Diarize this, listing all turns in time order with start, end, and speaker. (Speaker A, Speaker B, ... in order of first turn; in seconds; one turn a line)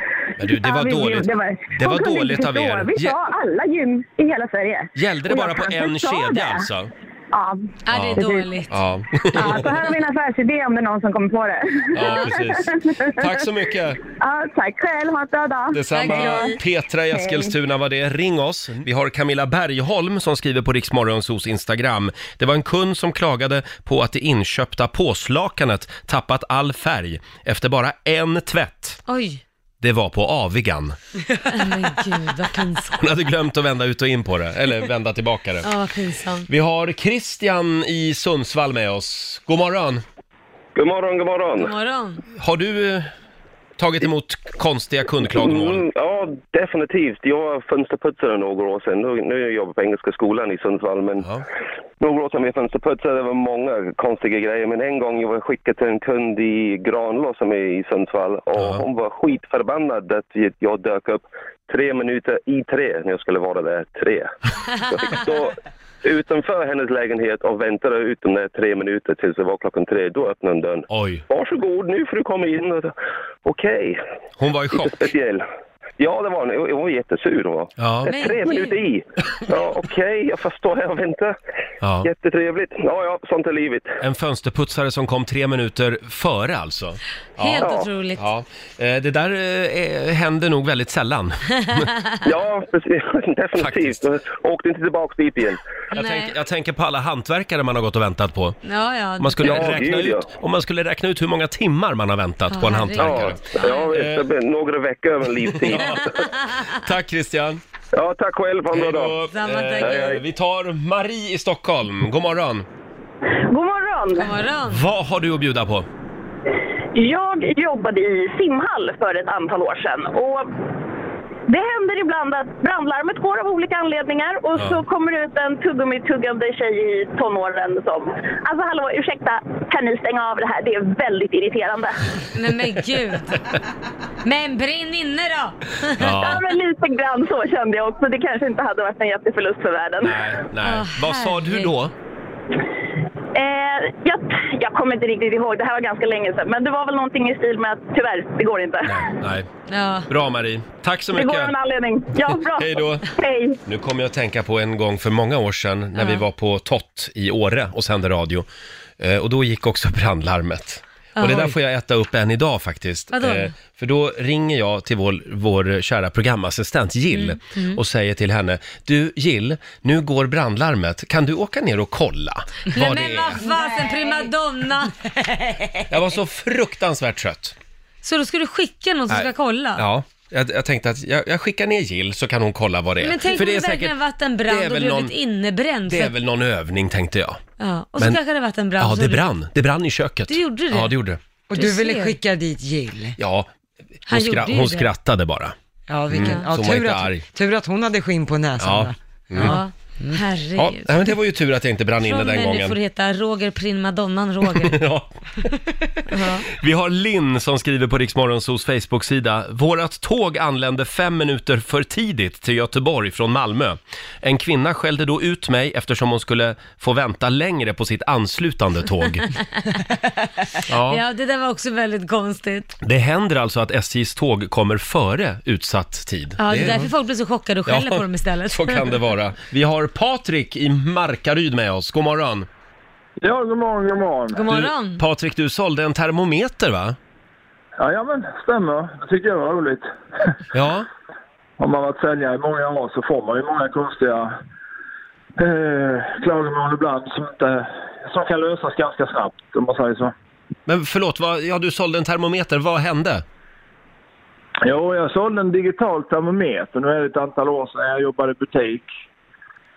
Speaker A: 0.4-3.2
Speaker B: 0.4-6.7
Speaker A: 4.9-6.9
Speaker B: 7.3-8.5
Speaker C: 7.8-8.7
Speaker A: 7.9-9.7
Speaker B: 9.3-13.3
Speaker A: 11.9-14.0
Speaker B: 14.2-16.5
Speaker A: 15.7-29.0
Speaker C: 15.9-16.6
Speaker B: 17.1-17.5
Speaker C: 29.1-29.4
Speaker A: 29.8-31.0
Speaker C: 31.5-33.0
Speaker A: 33.0-35.7
Speaker C: 35.6-36.5
Speaker A: 36.5-40.0
Speaker D: 40.7-41.7
Speaker C: 41.6-42.2
Speaker A: 42.4-43.1
Speaker A: 43.8-45.9
Speaker D: 45.3-51.3
Speaker D: 52.0-72.9
Speaker A: 58.5-58.8
Speaker A: 70.9-71.2
Speaker D: 73.4-74.0
Speaker A: 74.4-75.1
Speaker D: 74.7-75.4
Speaker D: 76.0-81.3
Speaker A: 77.8-78.1
Speaker C: 78.1-78.8
Speaker A: 81.8-82.1
Speaker D: 82.0-84.0
Speaker A: 84.0-91.9
Speaker C: 87.4-88.2
Speaker D: 87.6-87.9
Speaker D: 92.2-95.6
Speaker A: 93.5-94.0
Speaker C: 95.9-96.3
Speaker A: 95.9-98.6
Speaker C: 98.6-99.7
Speaker A: 99.2-104.3
Speaker D: 99.4-100.3
Speaker C: 102.5-103.9
Speaker D: 103.0-106.2
Speaker A: 105.4-107.6
Speaker D: 107.9-109.2
Speaker A: 108.7-112.7
Speaker C: 109.3-110.2
Speaker D: 109.8-110.2
Speaker B: 113.5-114.3
Speaker C: 114.2-114.8
Speaker A: 114.7-115.9
Speaker B: 116.9-120.5
Speaker B: 121.5-131.9
Speaker A: 124.5-124.8
Speaker C: 132.3-133.4
Speaker C: 134.2-136.3
Speaker A: 136.0-136.4
Speaker B: 136.2-140.2
Speaker A: 140.0-141.9
Speaker C: 140.6-141.7
Speaker B: 143.3-149.0
Speaker A: 148.8-149.5
Speaker C: 149.7-150.1
Speaker A: 150.1-151.5
Speaker B: 151.1-153.6
Speaker A: 152.3-153.1
Speaker A: 153.7-158.4
Speaker C: 156.0-156.2
Speaker A: 159.0-173.4
Speaker C: 161.2-161.5
Speaker C: 163.1-163.5
Speaker C: 167.1-167.8
Speaker C: 172.7-175.0
Speaker A: 175.9-177.5
Speaker C: 178.0-179.8
Speaker A: 179.1-183.9
Speaker C: 183.0-186.1
Speaker A: 184.5-185.1
Speaker A: 185.9-187.4
Speaker C: 187.6-189.2
Speaker A: 188.8-191.2
Speaker C: 190.3-190.9
Speaker E: 191.5-193.2
Speaker C: 191.5-192.2
Speaker A: 193.2-193.5
Speaker A: 194.1-195.5
Speaker C: 194.1-194.9
Speaker E: 195.9-200.1
Speaker A: 196.1-197.2
Speaker C: 196.1-196.5
Speaker A: 198.6-199.6
Speaker C: 199.4-200.9
Speaker A: 200.6-202.7
Speaker C: 202.0-204.8
Speaker A: 204.5-205.1
Speaker C: 206.1-206.4
Speaker A: 206.6-219.3
Speaker A: 220.7-221.0
Speaker C: 220.9-222.8
Speaker A: 222.8-226.9
Speaker C: 226.4-229.0
Speaker A: 227.7-232.5
Speaker F: 233.2-234.4
Speaker C: 234.3-235.0
Speaker A: 234.5-236.9
Speaker F: 237.8-240.3
Speaker A: 240.5-240.9
Speaker F: 241.6-244.3
Speaker F: 245.4-250.1
Speaker A: 250.7-253.2
Speaker F: 254.6-258.9